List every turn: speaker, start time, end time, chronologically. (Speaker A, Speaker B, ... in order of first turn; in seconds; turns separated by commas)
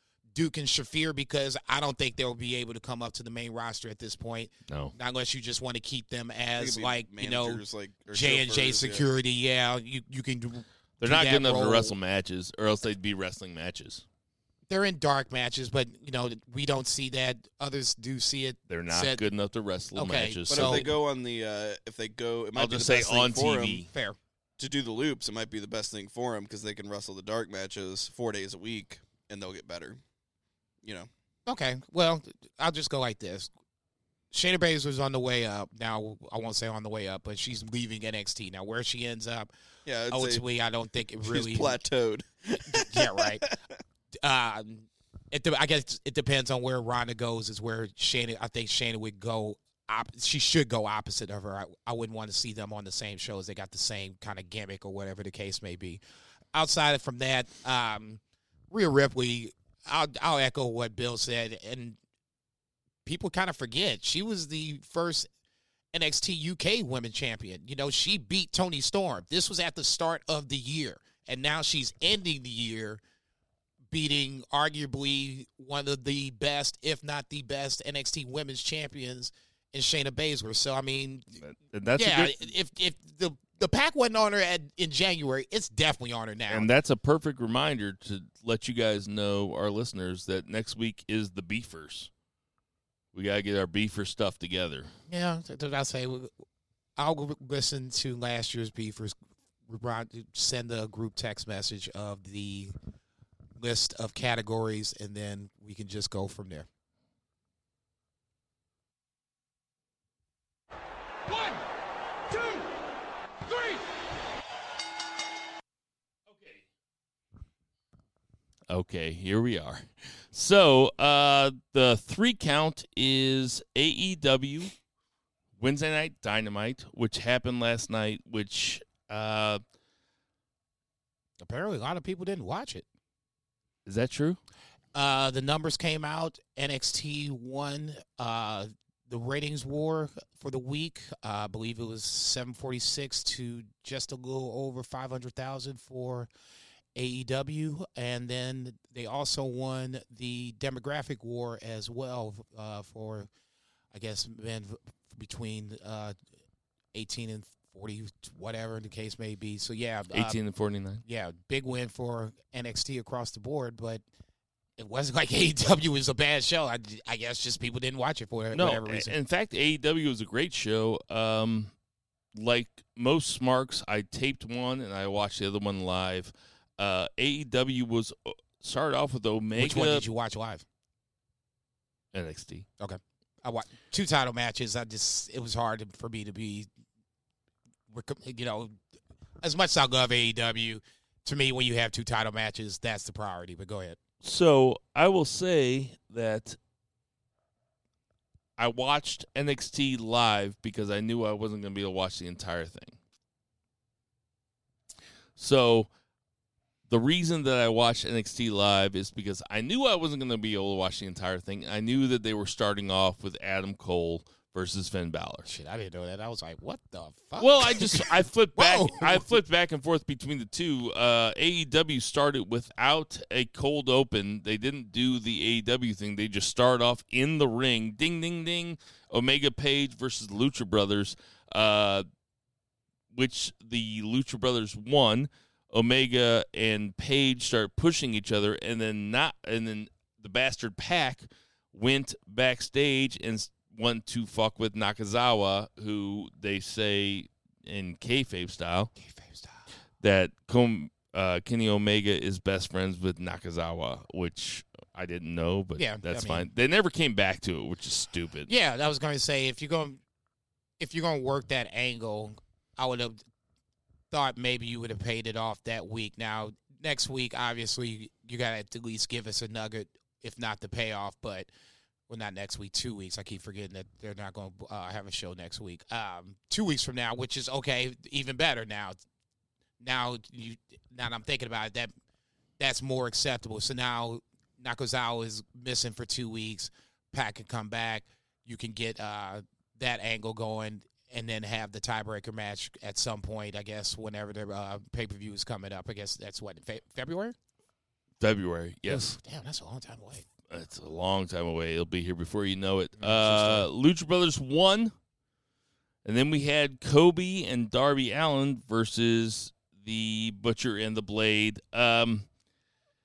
Speaker A: 0.3-11.9, Speaker B: 4.7-4.9, Speaker C: 6.6-9.1, Speaker B: 11.0-14.0, Speaker A: 14.7-19.2, Speaker B: 18.7-20.9, Speaker A: 19.9-20.9, Speaker C: 20.5-23.8, Speaker B: 22.6-23.9, Speaker A: 23.9-24.2, Speaker C: 24.6-30.0, Speaker C: 30.8-31.1, Speaker A: 31.4-33.5, Speaker A: 34.3-39.5, Speaker C: 39.9-40.4, Speaker A: 40.1-41.8, Speaker C: 41.2-43.6, Speaker A: 42.6-43.4, Speaker A: 44.2-56.0, Speaker A: 56.5-58.2, Speaker A: 58.7-62.0, Speaker A: 63.0-65.3, Speaker A: 65.9-73.0, Speaker A: 73.9-81.4, Speaker B: 81.4-82.4, Speaker A: 82.0-86.7, Speaker B: 86.5-92.1, Speaker B: 93.1-94.9, Speaker A: 95.1-96.3, Speaker A: 97.0-99.2, Speaker A: 99.7-102.7, Speaker A: 103.6-106.7, Speaker B: 116.3-116.6, Speaker B: 118.7-124.7, Speaker B: 125.6-129.6, Speaker A: 131.4-132.8, Speaker B: 133.8-134.4, Speaker A: 134.9-146.3, Speaker A: 146.9-153.3, Speaker A: 153.9-156.2, Speaker A: 156.9-160.4, Speaker B: 160.1-161.0, Speaker A: 161.0-164.0, Speaker A: 164.8-169.1, Speaker B: 168.5-171.7, Speaker B: 172.3-180.0, Speaker A: 179.6-180.6, Speaker B: 182.1-182.7, Speaker A: 182.8-186.7, Speaker A: 187.9-188.8, Speaker A: 189.4-194.0, Speaker B: 194.2-196.6, Speaker B: 198.6-202.9, Speaker B: 205.4-205.9, Speaker B: 206.9-215.5, Speaker A: 215.4-219.3, Speaker B: 217.4-232.0, Speaker B: 233.1-248.9, Speaker A: 249.0-249.5, Speaker B: 250.0-258.5, Speaker A: 255.8-256.5, Speaker A: 258.5-260.0, Speaker A: 260.8-263.2, Speaker A: 264.1-271.5, Speaker A: 272.1-279.0, Speaker A: 279.8-281.9, Speaker A: 282.6-297.3, Speaker B: 298.2-299.1, Speaker A: 298.9-300.2, Speaker B: 300.5-304.9, Speaker A: 303.0-303.7, Speaker B: 306.0-312.3